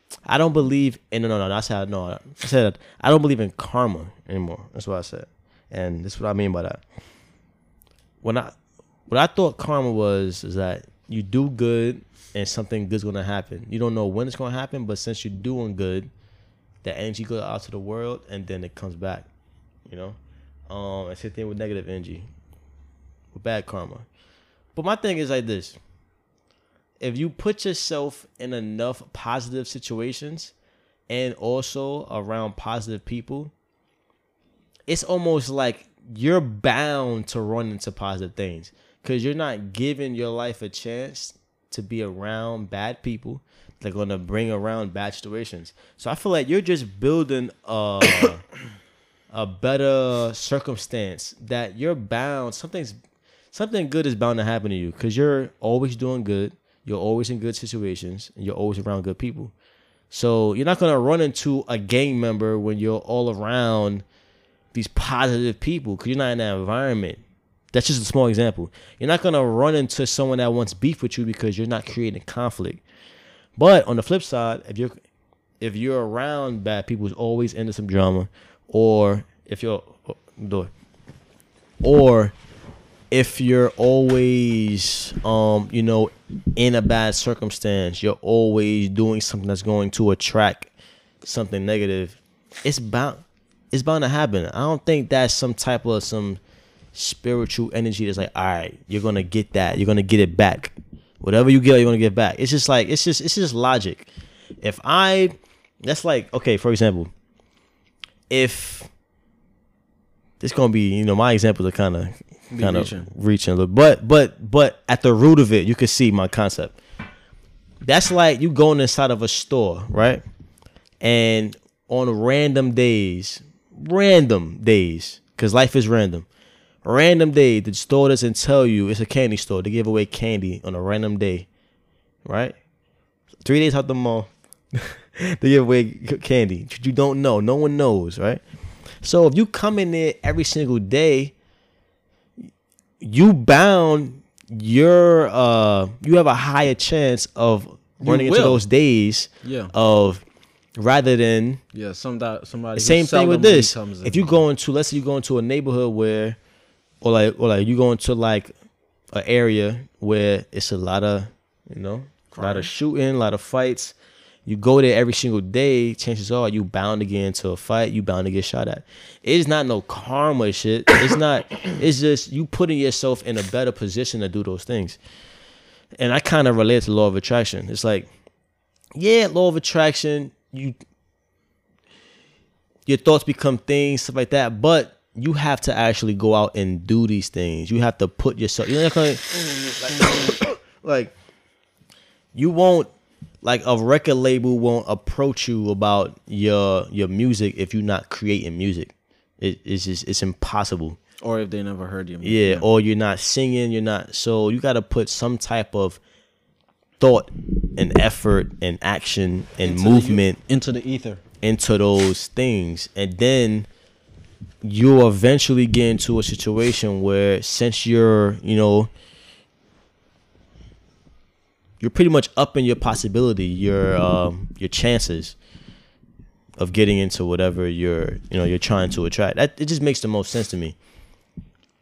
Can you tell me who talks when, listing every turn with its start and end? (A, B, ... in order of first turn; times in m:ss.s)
0:00.3-0:06.8 A
0:08.2-0:16.1 A
0:16.8-0:19.3 A
0:19.9-0:20.2 A
0:20.7-0:22.3 A
0:23.3-0:24.0 A
0:24.7-0:25.8 A
0:27.0-0:30.5 A
0:31.1-0:33.5 A
0:34.9-0:48.4 A
0:49.3-0:53.0 A
0:53.5-0:59.5 A
1:00.1-1:04.0 A
1:04.7-1:07.2 A
1:07.7-1:12.8 A
1:13.6-1:15.0 A
1:15.6-1:20.7 A
1:21.8-1:22.3 A
1:23.1-1:30.7 A
1:31.2-1:36.4 A
1:36.9-1:44.1 A
1:44.6-1:47.1 A
1:48.3-1:48.9 A
1:50.4-1:56.8 A
1:52.5-1:53.1 B
1:57.8-2:00.2 A
2:01.0-2:06.3 A
2:06.8-2:11.5 A
2:12.2-2:12.6 A
2:13.4-2:21.3 A
2:23.0-2:30.2 A
2:28.0-2:28.6 B
2:29.4-2:29.7 B
2:30.8-2:31.6 A
2:31.7-2:34.3 B
2:32.8-2:36.4 A
2:37.0-2:38.5 A
2:39.1-2:43.9 A
2:42.3-2:42.7 B
2:44.4-2:55.0 A
2:56.0-2:58.1 A
2:58.9-3:00.7 A
3:02.8-3:11.1 A
3:12.3-3:21.0 A
3:21.2-3:22.6 B
3:22.2-3:26.0 A
3:27.0-3:30.4 A
3:29.6-3:31.2 B
3:31.4-3:33.7 A
3:34.6-3:38.9 A
3:41.8-3:45.4 A
3:46.6-3:50.8 A